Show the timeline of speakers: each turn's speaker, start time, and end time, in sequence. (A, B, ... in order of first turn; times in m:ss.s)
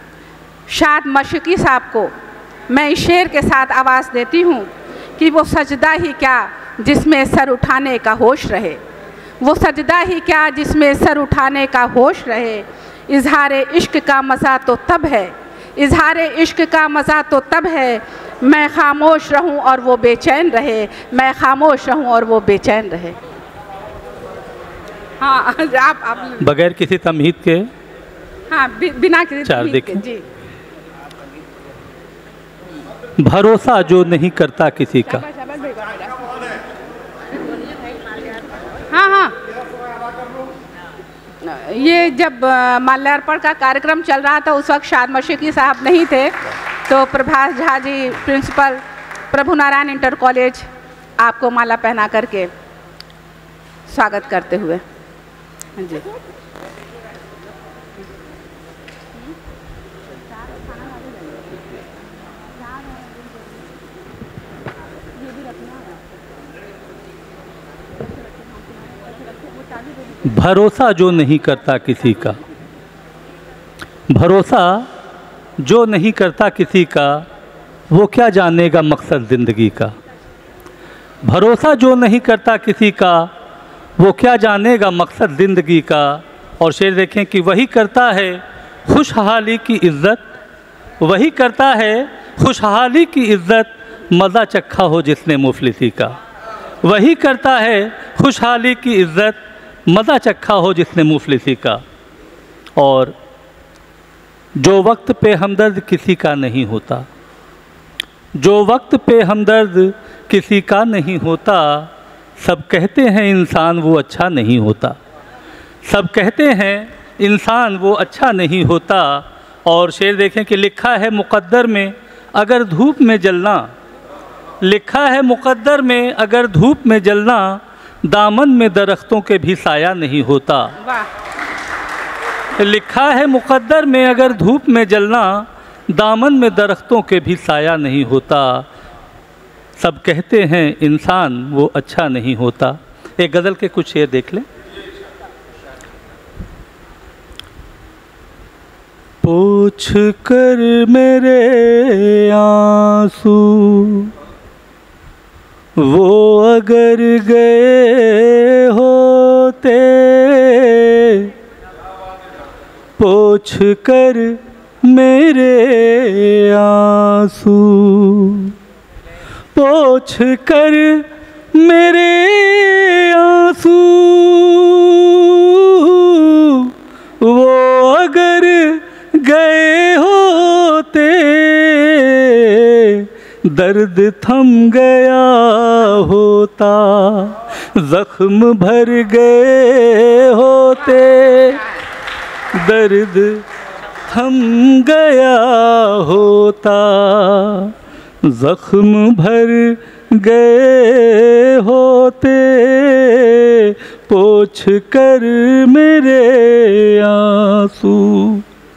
0:00.7-0:02.1 A
0:02.7-0:08.8 A
0:09.4-0:23.2 A
0:25.2-0:26.5 A
0:26.4-0:27.6 B
0:28.5-0:30.2 A
0:29.4-0:30.0 B
0:33.2-0:35.2 B
0:35.1-0:36.5 A
0:38.9-0:39.4 A
0:41.4-0:50.7 A
0:51.2-0:52.5 A
0:53.9-0:54.8 A
0:55.8-0:56.1 A
1:00.5-1:01.4 A
1:05.3-1:06.0 A
1:08.8-1:09.6 A
1:10.2-1:12.4 B
1:14.1-1:14.9 B
1:15.6-1:17.2 B
1:17.9-1:19.9 B
1:21.2-1:23.3 B
1:24.0-1:30.2 B
1:31.0-1:36.2 B
1:36.8-1:39.4 B
1:39.9-1:41.8 B
1:42.8-1:43.1 B
1:44.6-1:47.0 B
1:48.4-1:55.0 B
1:55.8-2:03.7 B
2:04.6-2:10.8 B
2:10.8-2:11.1 A
2:12.6-2:18.6 B
2:19.8-2:24.4 B
2:29.2-2:34.1 B
2:35.8-2:41.3 B
2:43.0-2:48.5 B
2:49.6-3:11.6 B
3:12.5-3:13.4 B
3:14.1-3:17.7 B
3:18.2-3:28.4 B